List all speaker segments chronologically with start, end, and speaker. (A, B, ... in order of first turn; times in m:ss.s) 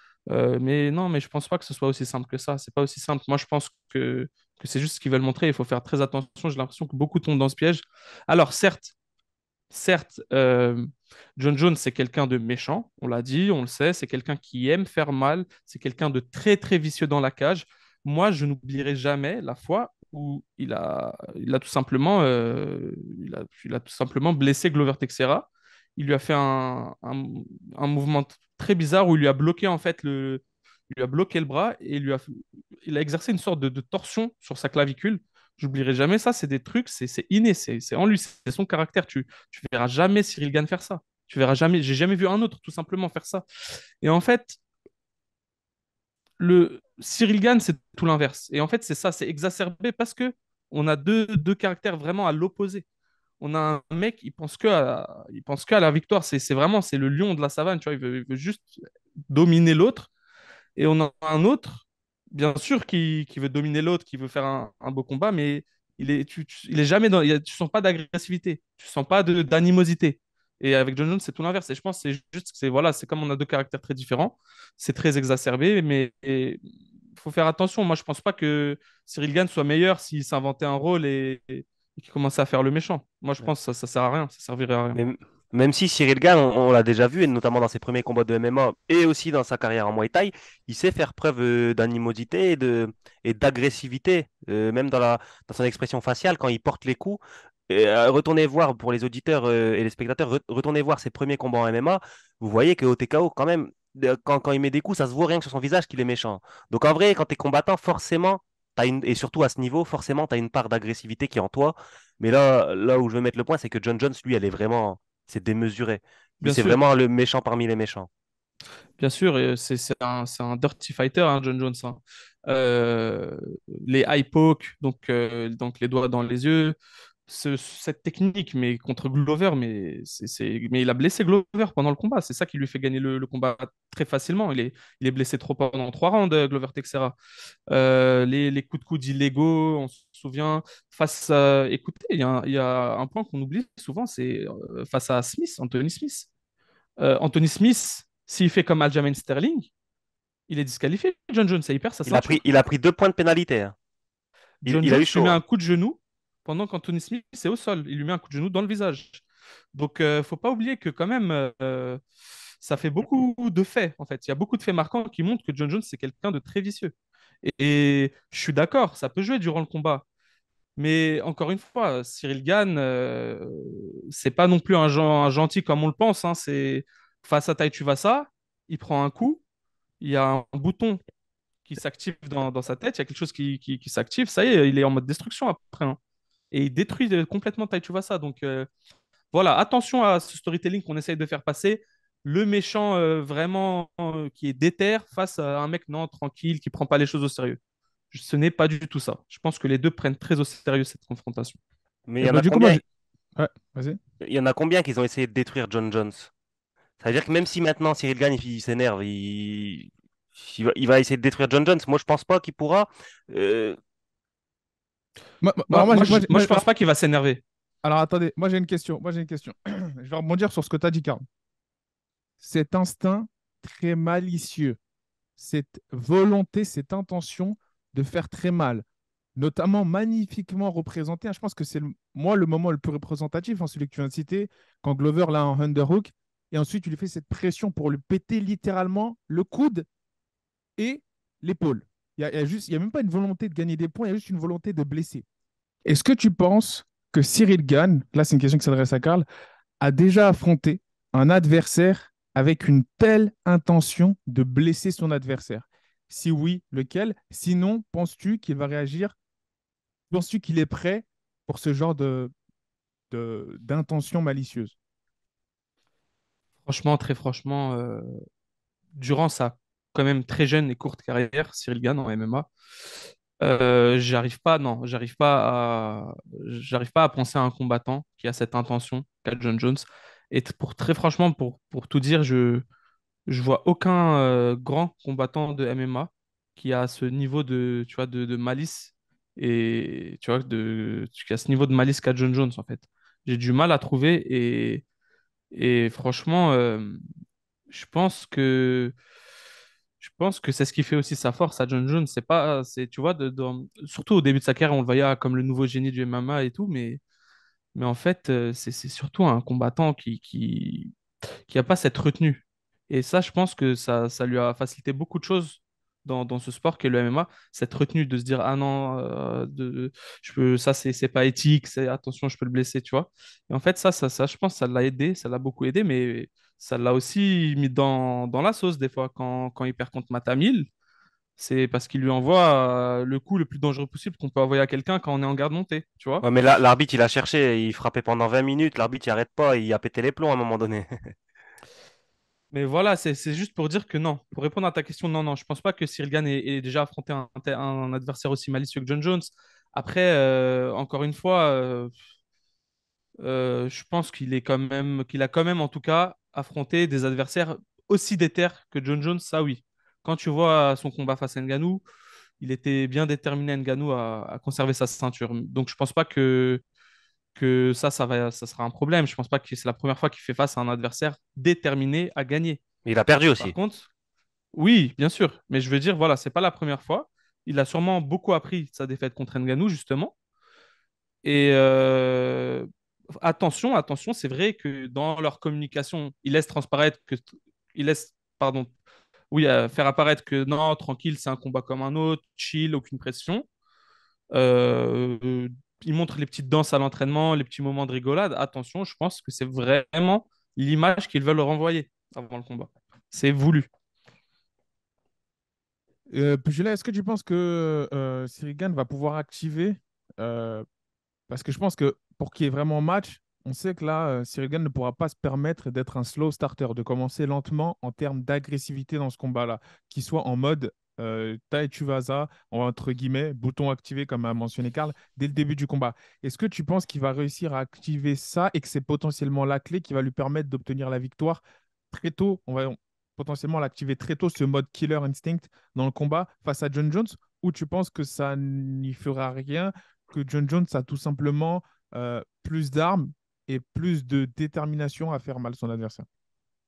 0:00.3-0:08.9 A
0:09.7-0:43.4 A
0:44.0-0:44.6 A
0:46.4-0:52.8 A
0:53.4-0:58.8 A
0:59.3-1:00.1 A
1:00.8-1:16.6 A
1:17.2-1:25.0 A
1:25.0-1:58.1 B
1:56.4-1:56.8 A
1:59.0-2:06.8 A
2:07.3-2:17.2 A
2:17.7-2:26.3 A
2:27.0-2:29.7 A
2:30.5-2:32.4 A
2:32.1-2:33.8 B
2:34.6-2:39.2 A
2:34.7-2:35.4 B
2:39.7-2:42.0 A
2:42.6-2:50.0 A
2:50.8-2:59.4 A
3:00.0-3:01.0 A
3:01.7-3:06.0 A
3:06.5-3:08.7 A
3:09.3-3:17.6 A
3:18.1-3:21.6 A
3:22.1-3:22.8 B
3:22.2-3:22.8 C
3:23.4-3:24.0 C
3:24.2-3:26.3 B
3:27.0-3:33.8 B
3:35.4-3:36.7 C
3:35.7-3:37.4 A
3:37.8-3:41.2 C
3:42.4-3:44.8 C
3:45.4-3:48.8 C
3:49.4-3:59.9 C
4:00.8-4:05.2 C
4:05.8-4:09.2 C
4:09.8-4:19.2 C
4:20.1-4:22.3 C
4:23.1-4:24.8 C
4:26.6-4:28.1 A
4:29.0-4:32.5 A
4:33.4-4:42.6 A
4:43.3-4:54.8 A
4:55.5-4:57.0 A
4:57.7-4:58.9 A
5:00.0-5:07.0 A
5:07.8-5:10.9 A
5:11.5-5:30.7 A
5:31.4-5:36.2 A
5:36.2-5:41.1 B
5:42.5-5:51.9 A
5:53.2-6:01.8 A
6:02.4-6:06.6 A
6:07.4-6:12.6 A
6:12.9-6:13.6 B
6:13.4-6:13.9 A
6:14.5-6:20.1 A
6:21.2-6:27.2 A
6:27.8-6:28.7 A
6:29.3-6:33.5 A
6:34.3-6:43.7 A
6:46.1-6:50.6 C
6:51.3-7:26.1 C